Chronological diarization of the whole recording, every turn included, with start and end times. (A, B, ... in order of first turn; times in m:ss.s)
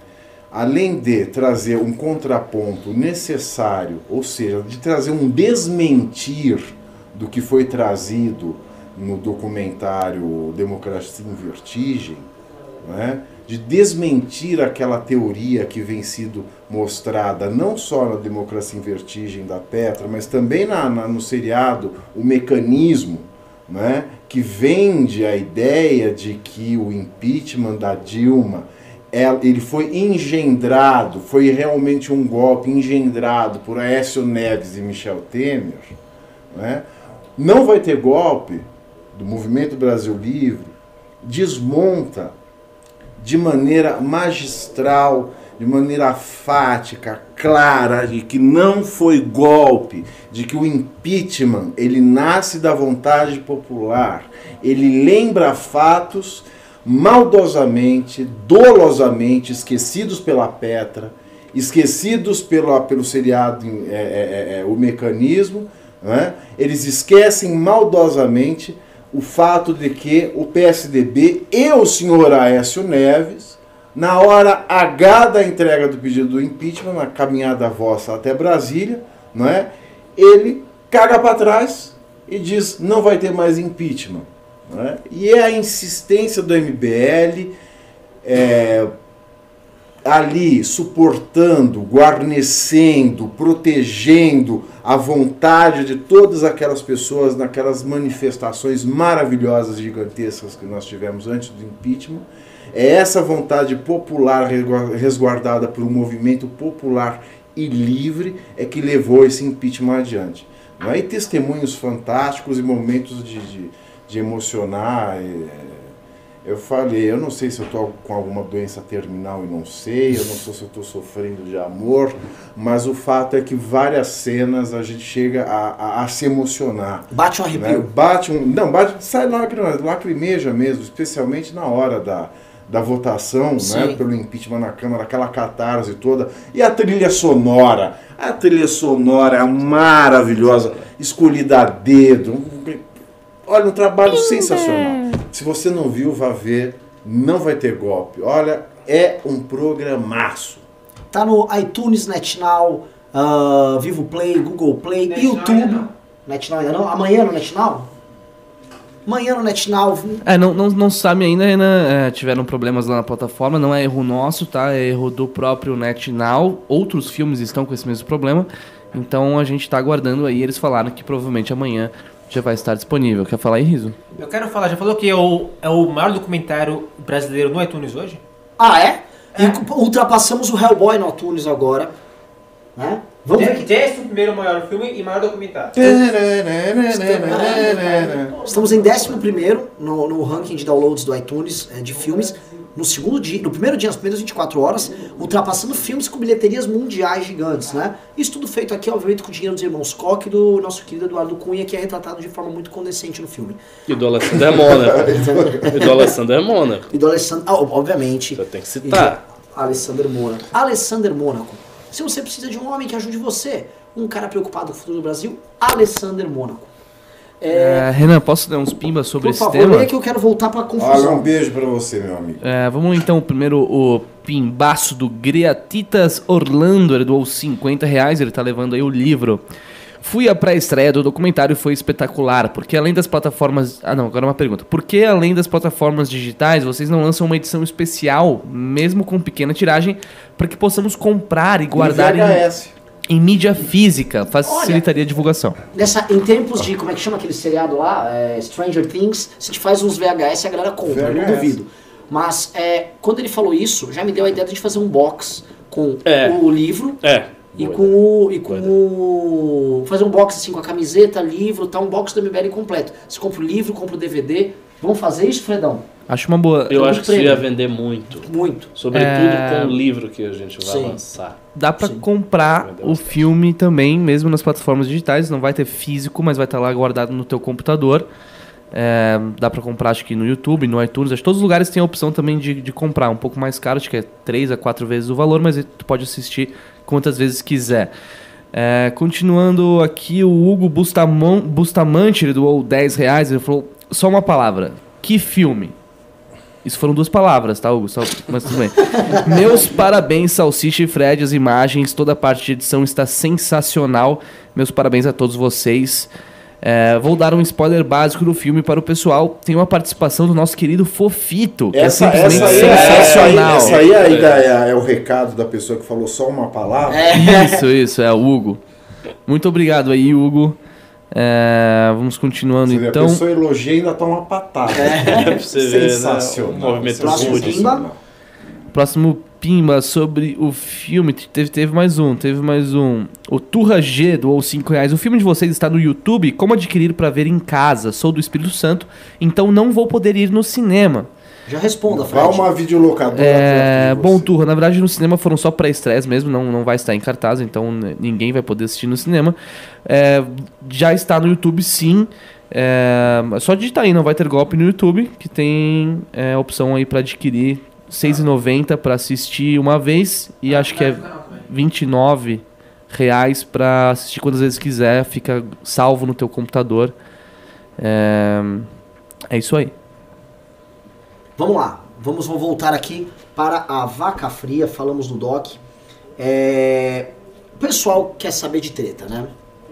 0:00.5-0:12.3 A
0:12.8-0:36.0 A
0:36.5-0:36.8 A
0:37.4-0:42.4 A
0:43.2-1:27.6 A
1:28.2-1:28.9 A
1:30.0-2:22.8 A
2:07.1-2:07.9 B
2:13.6-2:14.0 B
2:20.5-2:20.9 C
2:23.5-2:30.6 A
2:24.3-2:25.0 D
2:31.1-2:37.9 B
2:35.1-2:35.9 E
2:39.1-2:40.2 B
2:40.2-2:54.0 D
2:54.2-2:58.2 E
2:58.6-3:01.9 B
2:59.4-2:59.6 E
3:02.8-3:03.7 B
3:03.4-3:05.8 E
3:05.7-3:08.4 A
3:06.9-3:23.6 B
3:23.9-3:26.9 C
3:24.9-3:26.1 B
3:26.9-3:36.7 B
3:28.4-3:29.2 C
3:37.4-3:37.9 B
3:37.5-3:39.9 D
3:39.2-3:41.3 B
3:40.8-3:42.5 A
3:42.4-3:49.4 D
3:50.0-4:02.4 D
4:01.7-4:02.8 A
4:03.1-4:05.6 D
4:04.4-4:04.8 B
4:05.7-4:17.0 B
4:10.8-4:11.6 A
4:16.1-4:16.4 C
4:17.0-4:18.0 C
4:17.6-4:25.8 B
4:18.5-4:18.7 C
4:26.1-4:27.2 D
4:26.7-4:31.4 C
4:26.9-4:27.4 B
4:28.2-4:28.7 B
4:28.9-4:29.8 D
4:30.6-4:31.0 B
4:31.6-4:38.1 D
4:31.8-4:32.0 B
4:32.6-4:33.2 C
4:38.7-4:47.9 D
4:48.5-4:55.8 D
4:56.6-5:06.1 D
5:06.6-5:13.8 D
5:11.7-5:17.1 A
5:12.2-5:14.5 C
5:16.9-5:17.6 B
5:17.1-5:18.6 D
5:19.3-5:20.6 D
5:21.1-5:23.2 D
5:22.7-5:28.0 A
5:24.7-5:25.4 B
5:24.9-5:27.8 C
5:27.0-5:27.9 B
5:28.7-5:41.1 D
5:41.5-5:42.6 B
5:41.9-5:44.4 A
5:43.2-6:06.9 D
6:00.5-6:01.3 E
6:07.8-6:08.7 D
6:09.3-6:09.7 D
6:11.4-6:15.6 B
6:16.2-6:19.3 B